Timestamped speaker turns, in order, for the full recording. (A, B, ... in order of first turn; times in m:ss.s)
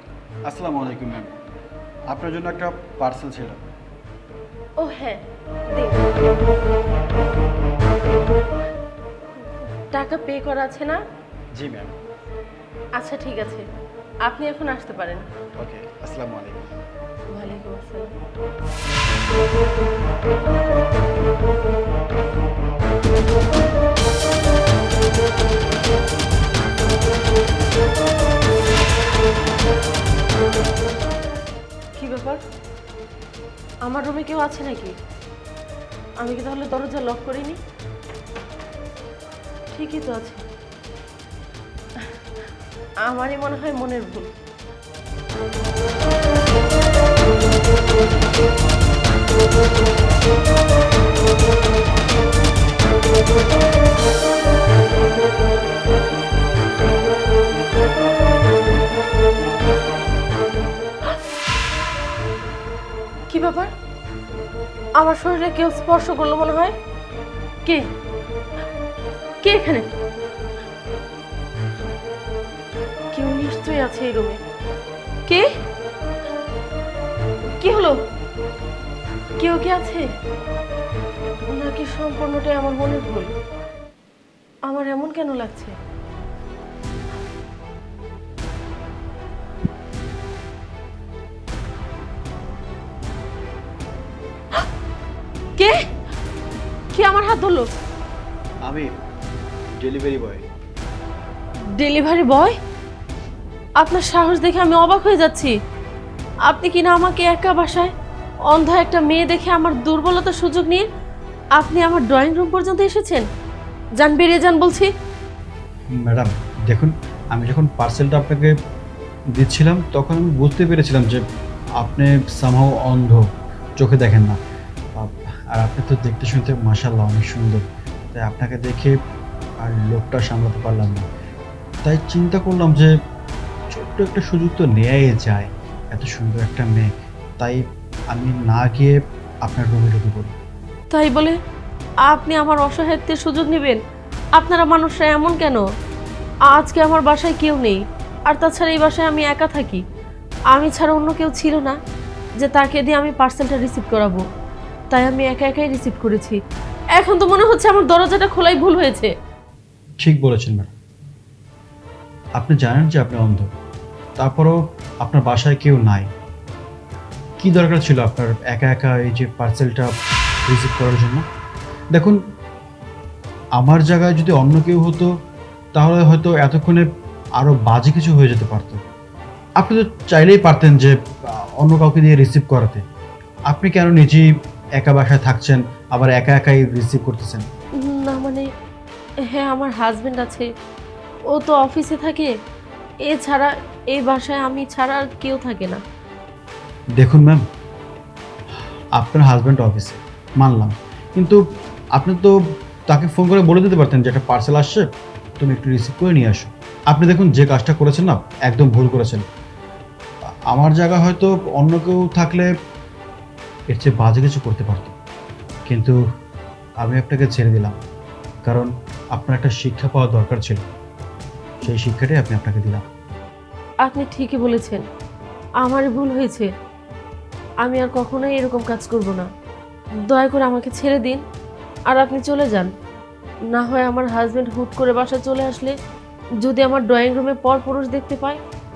0:00.5-0:01.4 A
0:02.1-0:03.6 A
0:04.8-0:06.1 B
0:09.9-0:11.0 B
0:11.5-0:12.0 A
0:13.0-0:13.6 B
0:14.2-0:15.3 B
0:15.6-0:16.7 A
0:17.3-0:18.2 B
0:32.0-0:32.4 B
0:33.8-0:35.0 B
0:36.2-0:37.6 B
0:39.7-0:40.4 B
0:43.0-0:44.3 B
1:03.3-1:03.7 B
1:05.0-1:06.8 B
1:07.6-1:07.9 B
1:09.4-1:09.9 B
1:13.1-1:14.4 B
1:17.6-1:18.0 B
1:19.4-1:20.1 B
1:21.4-1:23.3 B
1:24.7-1:25.8 B
1:35.6-1:35.9 B
1:36.9-1:37.7 B
1:39.7-1:40.4 A
1:41.8-1:42.6 B
1:43.8-1:45.5 B
1:46.5-1:47.9 B
1:48.5-1:50.9 B
1:51.6-1:53.3 B
1:54.0-1:54.9 B
1:55.9-1:58.6 A
1:59.3-2:01.2 A
2:01.8-2:03.2 A
2:03.8-2:04.4 A
2:05.0-2:07.6 A
2:08.1-2:09.0 A
2:09.6-2:11.1 A
2:11.8-2:12.9 A
2:13.7-2:20.4 A
2:20.9-2:21.4 B
2:22.1-2:23.8 B
2:24.4-2:25.6 B
2:26.5-2:29.8 B
2:30.5-2:31.8 B
2:32.4-2:34.2 B
2:34.9-2:36.4 B
2:37.0-2:39.1 B
2:40.0-2:40.8 A
2:42.4-2:43.5 A
2:44.2-2:46.1 A
2:47.4-2:49.9 A
2:50.5-2:51.2 A
2:51.9-2:52.2 A
2:53.6-2:55.1 A
2:55.7-2:58.8 A
2:59.6-3:02.8 A
3:03.5-3:07.5 A
3:07.8-3:08.5 B
3:09.3-3:10.5 B
3:11.3-3:12.3 B
3:13.1-3:15.8 B
3:17.0-3:17.4 A
3:19.0-3:21.4 A
3:21.9-3:24.9 A
3:25.4-3:29.2 A
3:30.5-3:32.5 A
3:33.7-3:35.0 A
3:35.7-3:36.0 A
3:36.8-3:37.8 A
3:38.4-3:40.6 A
3:41.6-3:42.9 A
3:43.8-3:44.8 B
3:45.6-3:46.5 B
3:47.6-3:49.3 B
3:50.1-3:51.2 B
3:51.9-3:52.7 B
3:53.5-3:55.7 B
3:56.4-3:58.4 B